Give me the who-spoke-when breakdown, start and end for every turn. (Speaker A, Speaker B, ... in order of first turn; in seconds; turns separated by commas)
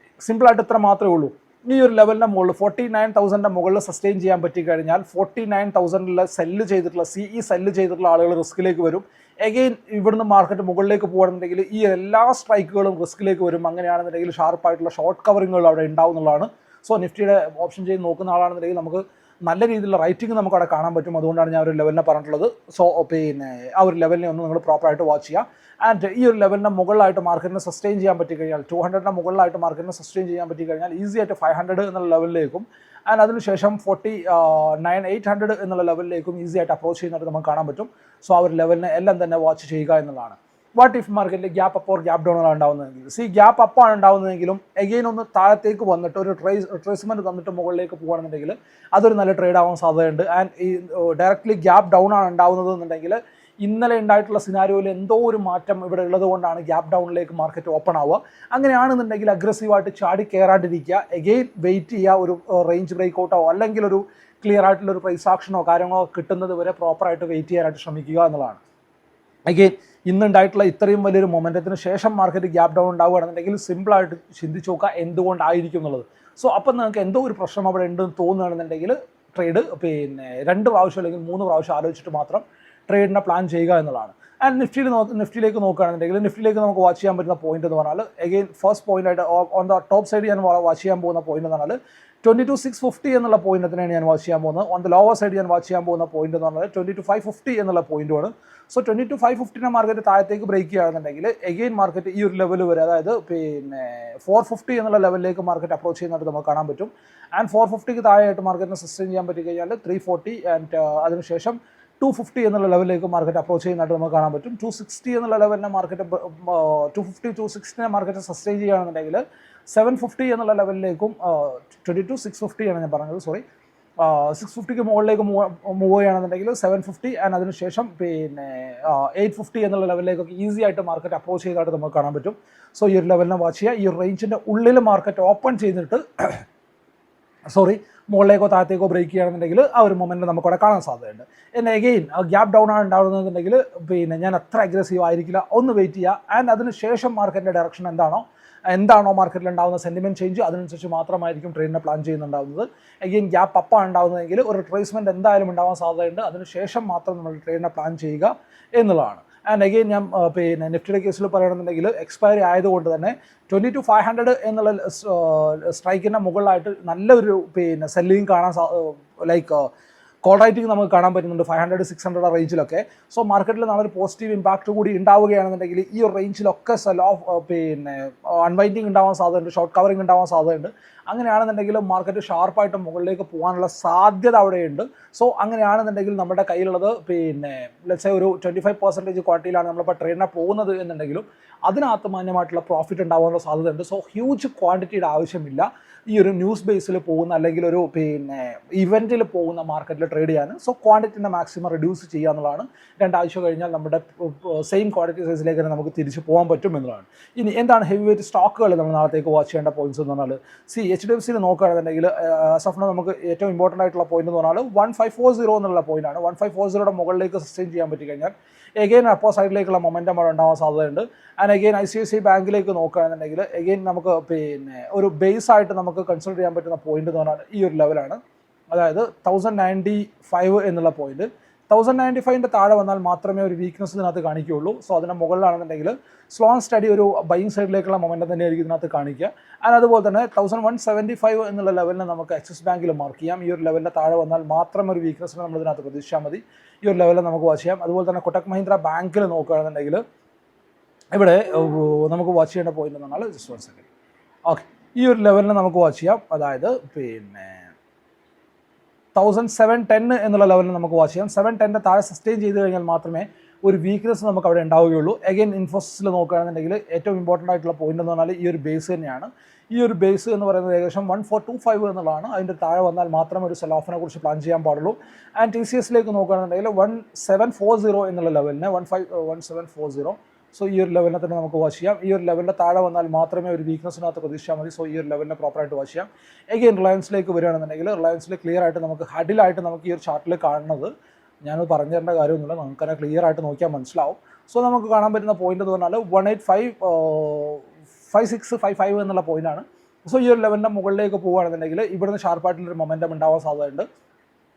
Speaker A: 0.2-68.6, Speaker A: 69.5-123.4, Speaker A: 124.0-136.4, Speaker A: 137.5-169.7, Speaker A: 170.2-228.2, Speaker A: 228.7-250.0, Speaker A: 251.1-253.8, Speaker A: 254.5-257.7, Speaker A: 259.1-290.9, Speaker A: 291.4-303.9